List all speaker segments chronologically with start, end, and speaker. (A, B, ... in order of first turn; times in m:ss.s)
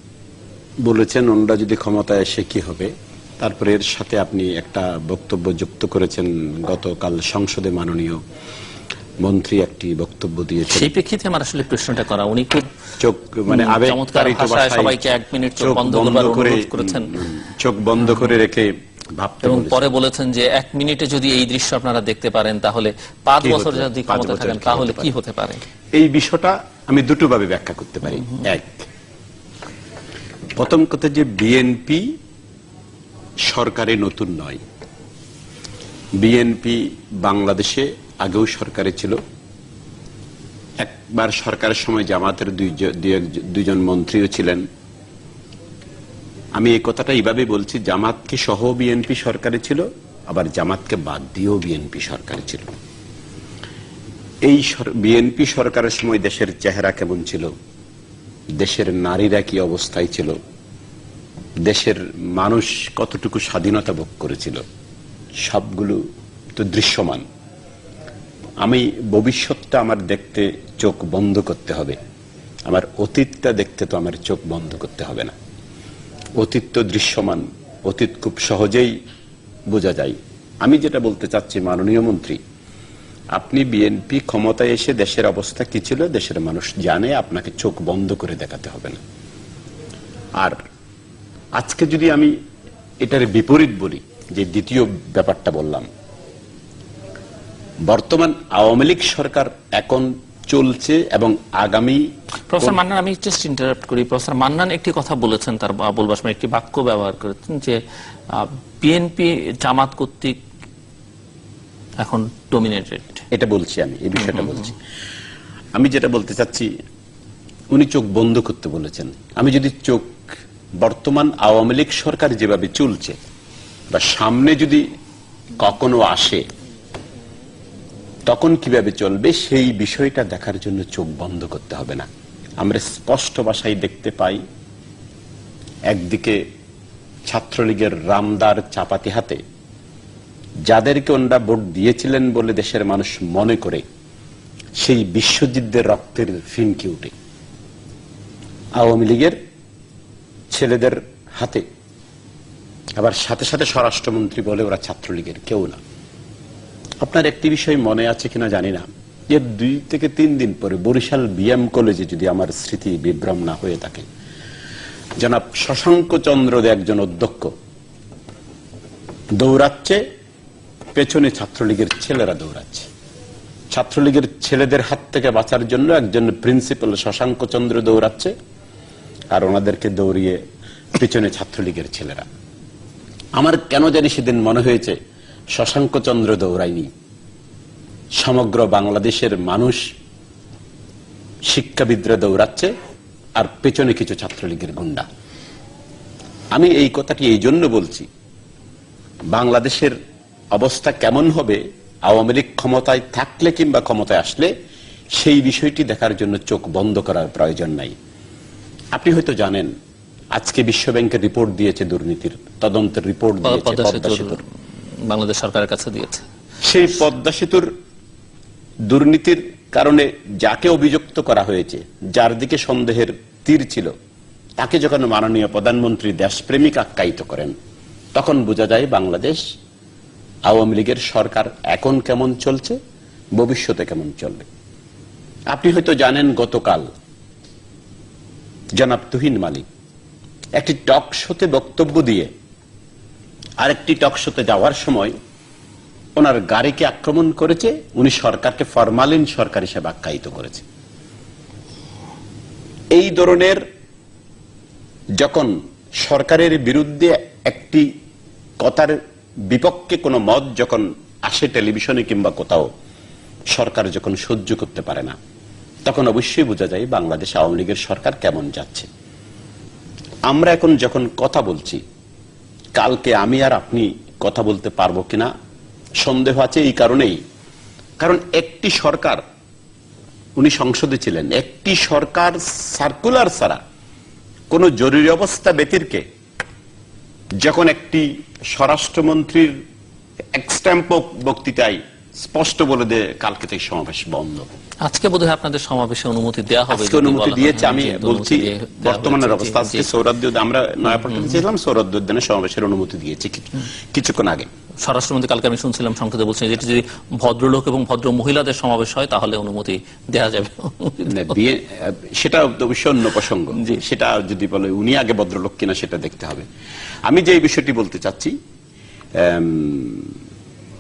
0:00.8-0:08.2 A
0:09.2-0:10.9 A
0:10.7-0:12.7 B
0:13.0-0:15.0 A
0:13.5-0:17.3 B
0:15.6-0:19.9 A
0:18.0-0:18.3 B
0:19.4-0:25.6 B
0:23.4-0:25.1 A
0:25.9-0:28.9 A
0:30.6-0:32.1 A
0:33.5-0:34.6 A
0:36.2-0:39.2 A
0:40.8-0:44.6 A
0:46.6-0:52.7 A
0:54.4-0:57.5 A
0:58.6-1:00.4 A
1:01.6-1:04.6 A
1:05.4-1:06.0 A
1:06.6-1:07.2 A
1:08.6-1:12.0 A
1:12.7-1:15.3 A
1:16.4-1:18.9 A
1:19.7-1:22.4 A
1:23.3-1:29.0 A
1:31.6-1:32.3 A
1:33.0-1:35.9 A
1:37.9-1:42.1 A
1:42.5-1:47.8 B
1:48.3-1:50.4 B
1:52.0-1:53.2 B
1:53.3-1:54.8 A
1:54.2-1:54.6 B
1:55.8-1:56.7 A
1:57.7-2:00.1 A
2:00.8-2:03.2 A
2:03.9-2:04.8 A
2:05.6-2:06.4 A
2:08.3-2:12.1 A
2:12.6-2:14.4 A
2:15.9-2:16.4 A
2:17.3-2:19.4 A
2:20.7-2:23.8 A
2:24.8-2:27.1 A
2:28.8-2:29.4 A
2:30.5-2:31.6 A
2:33.0-2:35.8 A
2:37.0-2:44.0 A
2:45.2-2:47.5 A
2:49.4-2:50.0 A
2:51.0-2:52.9 A
2:53.7-2:58.3 A
2:59.3-3:00.4 A
3:01.0-3:02.3 A
3:03.4-3:05.0 A
3:05.6-3:06.9 A
3:08.2-3:09.8 A
3:11.5-3:12.7 A
3:13.4-3:15.0 A
3:16.5-3:18.1 A
3:19.3-3:20.0 A
3:20.5-3:24.5 A
3:25.2-3:27.9 A
3:29.0-3:29.7 A
3:30.3-3:34.4 A
3:33.4-3:34.4 B
3:35.0-3:36.2 B
3:36.6-3:37.7 A
3:38.9-3:43.9 A
3:44.6-3:47.5 A
3:48.2-3:49.4 A
3:50.5-3:52.8 A
3:53.4-3:54.5 A
3:55.5-3:56.9 A
3:58.8-3:59.6 A
4:00.6-4:02.3 A
4:03.6-4:05.1 A
4:06.2-4:10.6 A
4:12.9-4:13.6 A
4:15.2-4:17.9 A
4:18.6-4:19.0 A
4:19.5-4:22.7 A
4:23.5-4:25.1 A
4:25.9-4:28.9 A
4:30.3-4:31.8 A
4:32.8-4:35.3 A
4:36.0-4:37.2 A
4:38.0-4:39.2 A
4:40.4-4:43.6 A
4:44.5-4:46.0 A
4:47.4-4:49.6 A
4:50.4-4:54.5 A
4:54.8-4:59.9 B
4:56.7-5:04.5 A
5:00.9-5:01.4 B
5:04.8-5:11.4 B
5:11.1-5:16.4 A
5:13.6-5:13.8 B
5:17.1-5:18.3 A
5:19.2-5:20.2 A